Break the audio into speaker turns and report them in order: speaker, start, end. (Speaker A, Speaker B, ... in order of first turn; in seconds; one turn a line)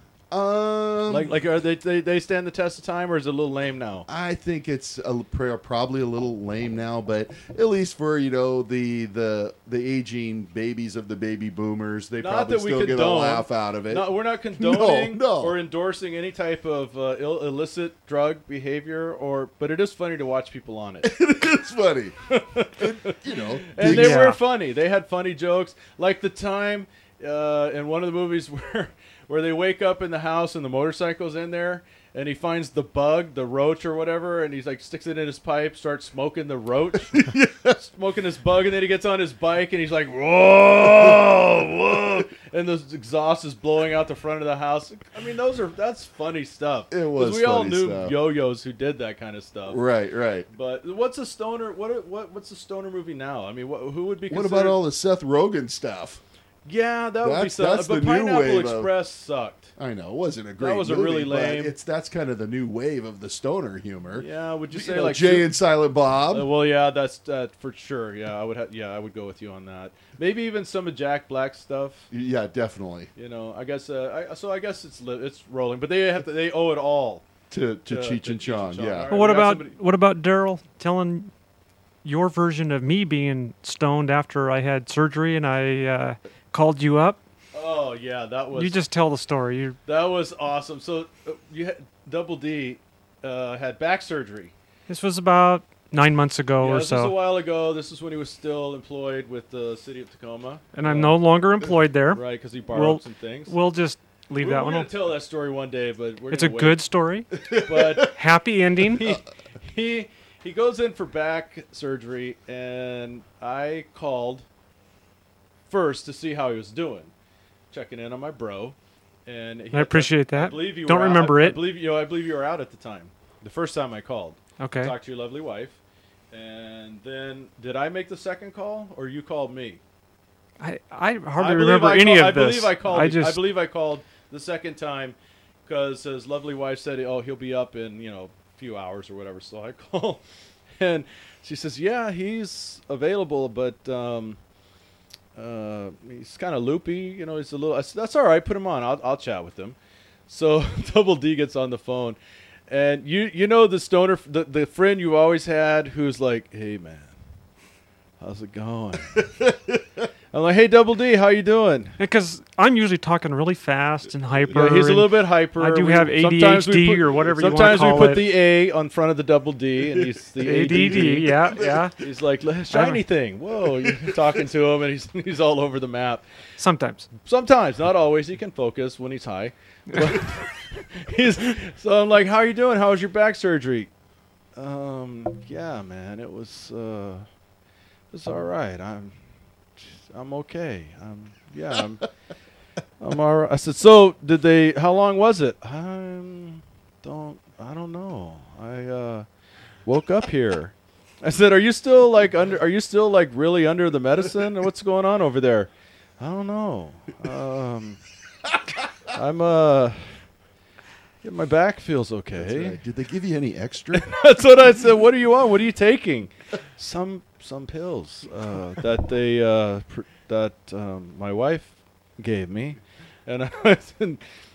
Speaker A: 0.3-1.3
Speaker B: 1.1-4.1
Speaker A: 4.1-15.6
Speaker B: 12.2-21.1
Speaker A: 21.0-22.1
Speaker B: 22.3-23.1
Speaker A: 22.7-24.2
Speaker B: 23.7-49.8
Speaker C: 23.8-24.4
Speaker A: 37.1-37.8
Speaker A: 46.9-48.1
Speaker A: 49.7-50.5
Speaker B: 50.5-54.8
Speaker A: 54.3-56.2
Speaker B: 56.6-59.7
Speaker A: 57.2-58.9
Speaker A: 59.8-66.5
Speaker B: 60.6-61.7
Speaker B: 64.1-65.5
Speaker B: 66.3-72.1
Speaker A: 72.1-73.1
Speaker B: 73.2-77.2
Speaker A: 77.5-79.2
Speaker B: 77.9-79.8
Speaker C: 79.1-81.3
Speaker C: 82.0-87.2
Speaker B: 87.5-88.8
Speaker C: 88.5-89.8
Speaker B: 89.8-94.5
Speaker C: 94.9-97.2
Speaker B: 96.6-101.2
Speaker C: 100.7-104.9
Speaker B: 102.1-103.5
Speaker B: 104.3-106.8
Speaker C: 106.3-107.3
Speaker A: 107.4-107.9
Speaker B: 107.6-108.1
Speaker C: 108.0-109.0
Speaker B: 108.8-114.4
Speaker B: 115.7-117.1
Speaker B: 117.7-125.8
Speaker C: 119.7-121.6
Speaker C: 124.6-124.9
Speaker B: 126.3-129.8
Speaker C: 130.6-133.4
Speaker B: 131.4-140.2
Speaker B: 140.8-144.4
Speaker B: 145.3-149.8
Speaker B: 150.3-152.2
Speaker B: 152.7-157.1
Speaker B: 158.2-159.2
Speaker A: 159.1-159.8
Speaker B: 160.3-162.0
Speaker C: 162.0-168.3
Speaker B: 164.5-176.2
Speaker C: 170.4-171.9
Speaker C: 172.7-173.0
Speaker A: 173.8-174.2
Speaker C: 176.6-177.1
Speaker B: 177.2-183.9
Speaker B: 184.6-187.3
Speaker B: 188.1-189.1
Speaker B: 190.1-192.1
Speaker B: 193.0-199.3
Speaker B: 199.8-208.0
Speaker B: 209.1-210.2
Speaker B: 211.2-212.8
Speaker A: 212.3-214.1
Speaker B: 213.9-224.2